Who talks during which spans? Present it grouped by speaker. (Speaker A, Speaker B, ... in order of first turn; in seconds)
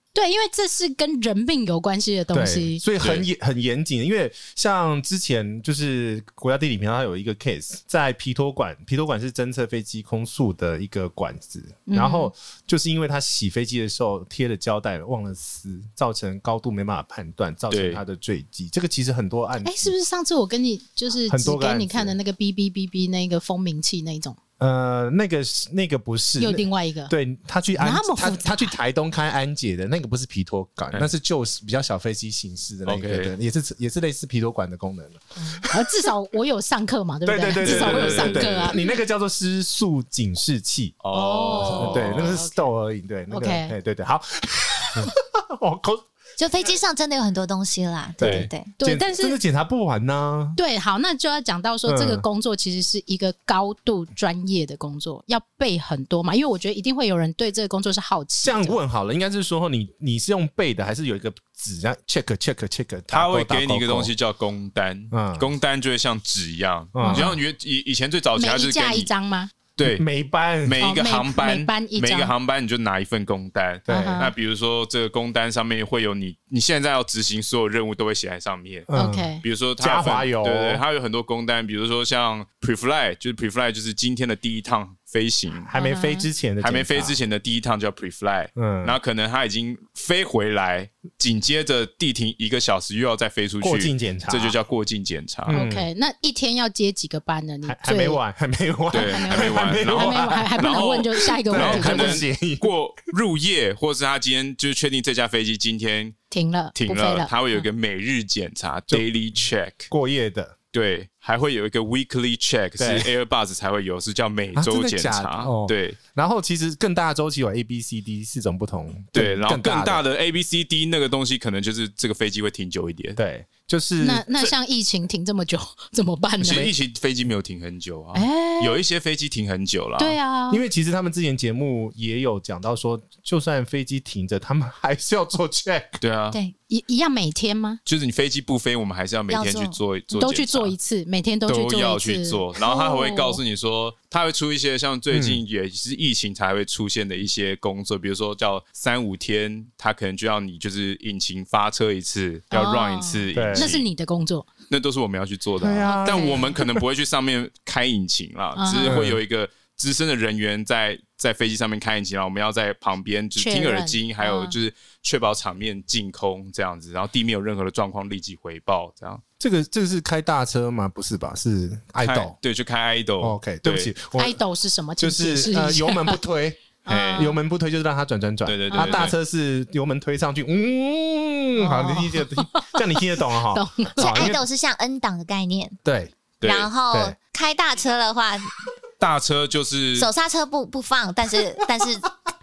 Speaker A: 0.1-2.8, 11.9-12.3, 19.6-24.4, 26.4-27.1, 27.8-28.7, 35.5-38.9, 41.1-42.6, 43.3-43.7, 48.8-49.4, 50.5-58.8, 67.0-67.4, 68.4-69.5, 70.8-72.3, 73.9-74.3, 79.0-79.4, 85.7-86.3, 95.5-98.2, 98.9-102.2, 106.3-107.3, 124.0-126.7, 128.1-128.8, 130.0-130.6, 136.7-137.8, 140.2-143.4, 152.5-154.5, 155.8-156.6, 158.6-159.0, 163.4-164.5, 174.2-176.2, 176.8-177.4, 178.7-179.1, 181.6-184.4
Speaker B: 2.3-19.9, 21.3-22.2, 24.6-36.0, 37.2-41.0, 41.6-46.0, 48.2-50.6, 51.9-52.2, 58.4-64.1, 65.1-65.5, 66.9-67.3, 69.8-70.8, 73.9-74.2, 78.9-80.8, 85.6-87.2, 88.5-89.0, 93.6-94.6, 95.5-95.9, 97.7-100.7, 101.4-102.7, 109.9-110.5, 112.8-113.1, 114.5-120.0, 123.2-124.3, 126.4-126.7, 130.5-136.0, 145.1-145.4, 153.3-153.8, 155.6-156.8, 158.8-159.2, 169.4-172.3, 173.2-174.4, 175.0-184.4, 185.8-186.1, 186.9-187.2
Speaker C: 3.0-3.2, 17.7-18.0, 32.9-33.3, 37.6-38.7, 41.0-42.4, 48.2-48.5, 63.1-69.1, 69.8-70.0, 70.6-78.9, 79.4-85.7, 86.6-95.6, 98.9-106.2, 106.7-109.9, 110.7-116.0, 119.1-123.2, 126.4-130.2, 136.0-136.4, 137.8-140.7, 141.5-153.8, 154.7-169.2, 172.0-173.9, 176.9-177.4, 178.4-179.2, 186.4-186.7, 189.0-190.1
Speaker D: 46.4-48.7, 139.3-139.8, 184.0-185.8, 186.4-188.6, 190.0-192.1